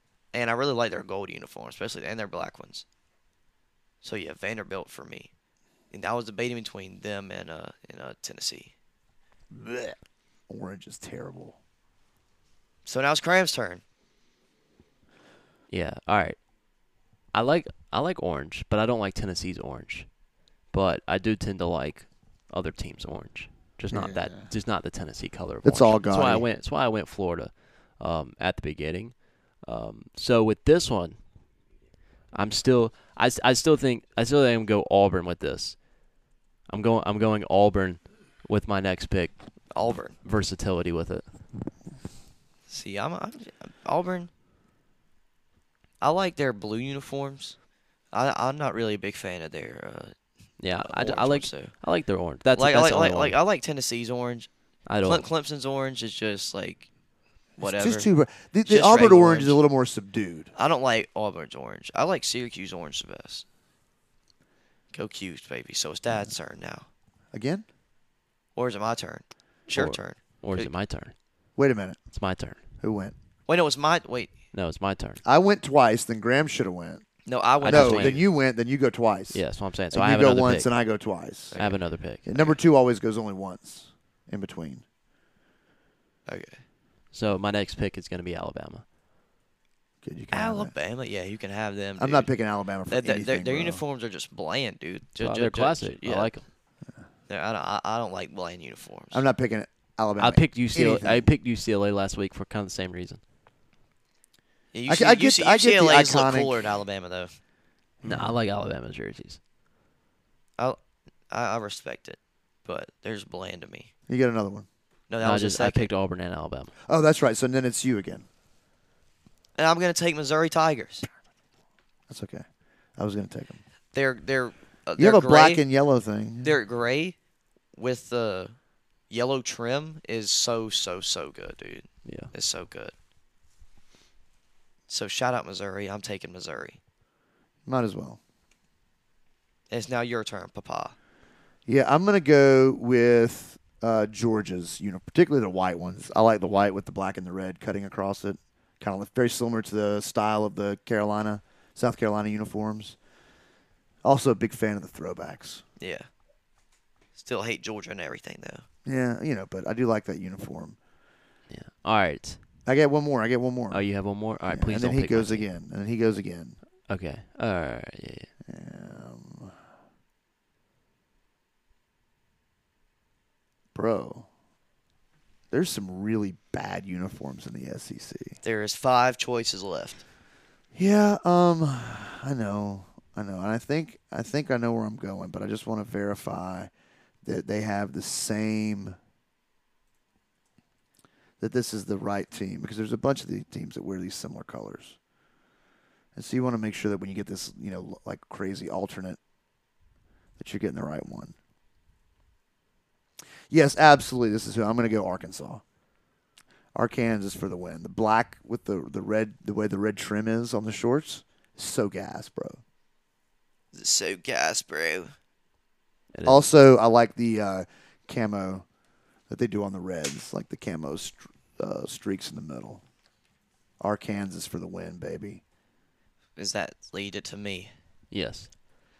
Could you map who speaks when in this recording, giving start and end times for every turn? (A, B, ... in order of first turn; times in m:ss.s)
0:00.3-0:02.8 A
0:04.0-0:05.3 A
0:05.9-0:08.7 A
0:09.5-0:10.0 B
0:10.5-0:11.6 B
0:12.9-0:13.8 A
0:15.7-0:16.4 C
0:17.3-0:20.1 C
0:20.7-0:31.2 C
0:23.9-0:24.5 B
0:25.6-0:26.4 B
0:32.3-0:35.8 C
0:36.7-0:39.4 C
0:39.7-0:40.1 A
0:40.2-0:41.2 C
0:42.7-0:44.3 A
0:46.0-0:47.6 A
0:48.1-0:50.1 A
0:50.6-0:53.4 C
0:50.8-0:51.7 A
0:52.5-0:54.5 A
0:54.9-0:55.2 C
0:55.0-0:56.9 A
0:57.6-0:58.1 A
0:57.6-1:00.5 B
0:58.6-0:59.6 A
1:00.5-1:03.4 A
1:04.9-1:06.9 A
1:07.3-1:07.6 B
1:08.6-1:10.7 A
1:09.7-1:11.1 C
1:11.6-1:12.0 B
1:12.1-1:12.6 C
1:12.8-1:13.1 B
1:13.5-1:14.3 A
1:14.5-1:15.2 C
1:15.2-1:17.0 B
1:17.2-1:18.2 A
1:17.6-1:18.2 C
1:17.7-1:21.6 B
1:19.3-1:20.7 C
1:21.5-1:21.8 A
1:21.5-1:22.3 C
1:22.2-1:24.8 B
1:26.3-1:26.6 A
1:27.1-1:28.8 C
1:30.0-1:30.7 B
1:30.3-1:32.3 A
1:32.0-1:33.8 B
1:32.9-1:36.3 A
1:35.2-1:36.4 C
1:37.3-1:39.2 A
1:39.1-1:41.3 B
1:40.2-1:43.2 C
1:44.7-1:47.3 A
1:44.9-1:46.6 B
1:48.0-1:48.3 B
1:48.0-1:49.4 C
1:51.3-1:53.9 A
1:54.1-1:54.7 B
1:55.1-1:55.9 A
1:55.2-1:56.7 C
1:56.9-1:58.2 B
1:59.6-2:01.1 A
2:02.1-2:02.4 B
2:03.0-2:03.6 B
2:03.9-2:05.6 A
2:05.0-2:06.5 B
2:06.4-2:07.2 A
2:07.7-2:08.5 A
2:09.1-2:12.9 A
2:12.0-2:12.3 C
2:14.9-2:16.8 A
2:17.6-2:18.2 B
2:19.7-2:20.9 A
2:21.7-2:33.0 B
2:34.0-2:35.6 B
2:35.8-2:36.1 A
2:37.2-2:38.6 A
2:38.9-2:40.8 B
2:41.5-2:42.4 C
2:42.6-2:43.9 B
2:43.7-2:45.5 C
2:44.5-2:46.6 B
2:46.9-2:48.3 C
2:48.5-2:49.5 B
2:53.7-2:54.3 B
2:55.5-2:58.4 B
2:58.4-3:00.0 A
3:00.7-3:06.7 B
3:07.2-3:09.0 B
3:11.4-3:15.0 B
3:16.1-3:19.2 B
3:20.4-3:21.3 B
3:23.5-3:25.6 B
3:26.7-3:32.6 B
3:33.7-3:35.1 A
3:36.1-3:36.4 C
3:36.2-3:38.6 B
3:39.3-3:42.8 B
3:43.8-3:45.4 B
3:46.4-3:47.7 A
3:48.1-3:48.5 C